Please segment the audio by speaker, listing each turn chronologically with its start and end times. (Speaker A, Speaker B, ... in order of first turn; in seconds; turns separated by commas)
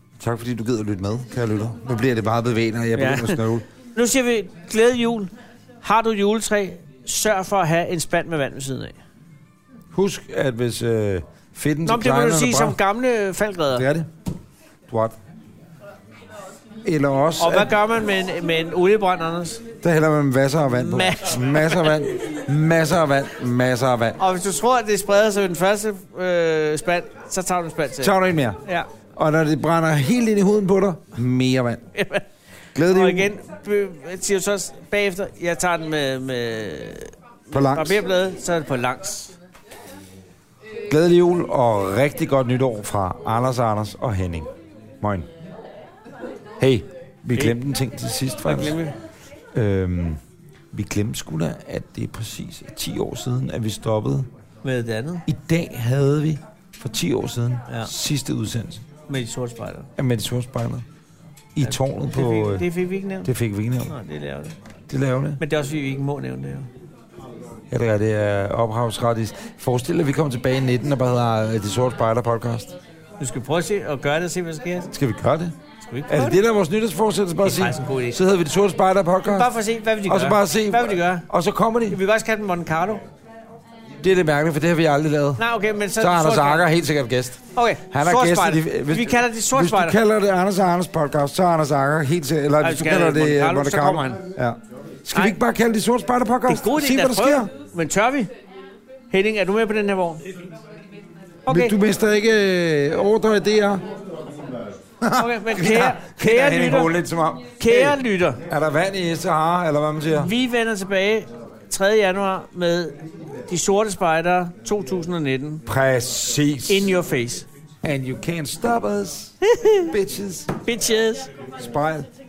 Speaker A: 0.2-3.6, Speaker B: 3.0-3.4, Speaker B: 3.9-8.9, Speaker A: 9.9-12.8, Speaker B: 11.9-13.9, Speaker A: 13.7-14.1, Speaker A: 14.9-15.2, Speaker A: 16.8-17.7, Speaker B: 17.4-19.6, Speaker A: 19.8-24.2, Speaker B: 20.7-22.0, Speaker B: 24.2-28.9, Speaker A: 28.0-28.6, Speaker A: 29.1-31.8, Speaker B: 31.9-32.2, Speaker A: 32.7-33.3, Speaker B: 32.9-39.4, Speaker A: 37.5-38.0, Speaker A: 40.9-44.5, Speaker A: 45.0-45.3, Speaker A: 46.6-48.8, Speaker B: 48.5-48.9, Speaker A: 49.5-50.2, Speaker A: 50.7-54.3, Speaker B: 54.6-55.2, Speaker A: 55.3-58.8, Speaker B: 59.1-59.9, Speaker A: 60.0-60.9, Speaker A: 61.5-62.7, Speaker B: 61.6-63.3, Speaker A: 63.2-63.9, Speaker B: 63.9-64.6, Speaker A: 64.9-65.4, Speaker B: 65.4-66.7, Speaker A: 67.7-72.7, Speaker B: 73.2-74.9, Speaker A: 74.9-75.5, Speaker B: 75.8-76.4, Speaker A: 76.1-79.5, Speaker B: 77.4-78.2, Speaker B: 79.3-81.3, Speaker A: 80.0-82.0, Speaker B: 81.9-83.0, Speaker A: 84.0-85.5, Speaker B: 85.4-86.7, Speaker A: 86.0-97.5, Speaker B: 87.5-90.0, Speaker B: 92.6-94.2, Speaker B: 96.5-98.3, Speaker B: 99.1-100.2, Speaker B: 101.5-101.8, Speaker A: 101.5-103.8, Speaker A: 105.0-110.3, Speaker B: 105.1-106.9, Speaker B: 107.6-108.4, Speaker B: 110.1-113.0, Speaker B: 113.5-115.6, Speaker A: 115.7-116.9, Speaker B: 116.7-117.5, Speaker A: 117.8-119.3, Speaker B: 119.4-119.9, Speaker A: 119.9-120.5, Speaker B: 120.6-121.3, Speaker A: 121.6-122.1